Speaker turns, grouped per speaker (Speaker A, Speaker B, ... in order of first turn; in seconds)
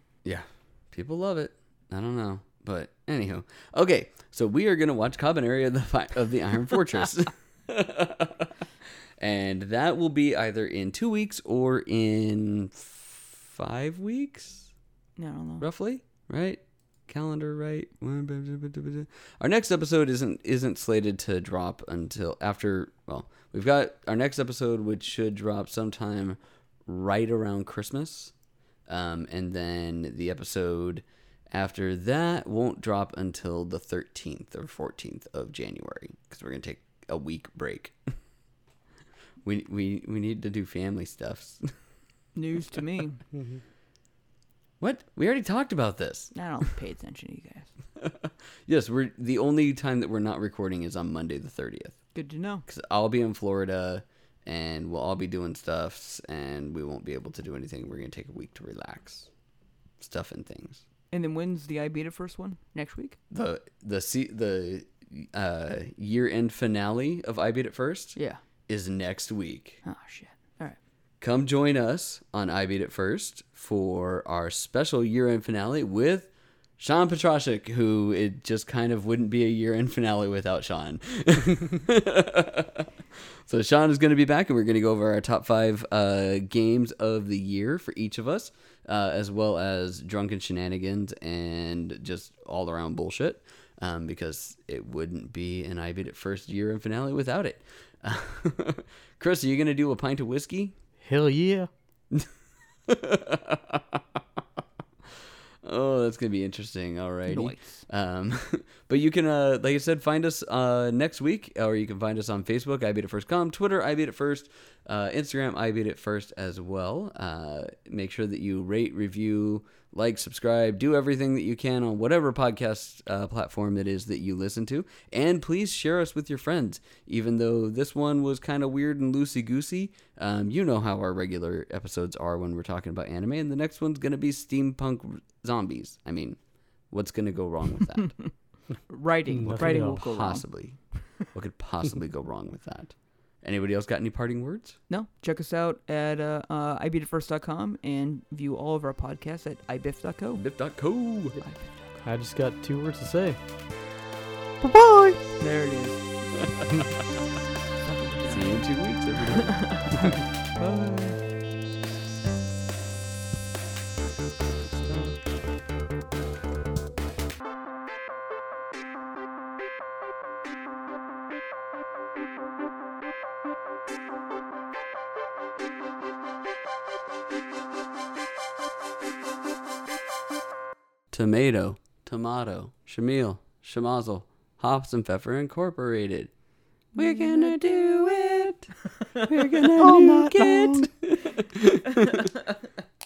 Speaker A: 0.2-8.5, 9.2-14.7, 15.6-28.3, 28.9-38.1, 39.4-41.7, 44.8-46.3, 48.0-52.0, 52.7-59.3, 60.0-60.8, 63.3-68.2, 68.7-69.8, 71.2-82.9, 83.5-100.7, 102.9-104.4, 105.6-136.4, 136.9-138.2, 139.6-140.8, 141.3-144.8, 150.4-151.4, 158.3-160.2, 164.6-165.2, 181.1-186.3, 186.9-192.3
Speaker B: 15.2-15.7, 42.3-43.2, 46.3-47.7, 52.1-52.6, 61.1-63.2, 68.2-68.4, 69.8-70.8, 107.3-107.8, 138.9-140.4, 144.9-150.4, 151.4-152.0, 155.4-156.0, 157.8-158.6, 159.4-161.2, 186.9-188.5, 189.0-190.9, 192.0-192.4
Speaker C: 43.3-43.6, 101.0-101.7, 139.3-140.0, 152.0-153.4, 154.6-155.2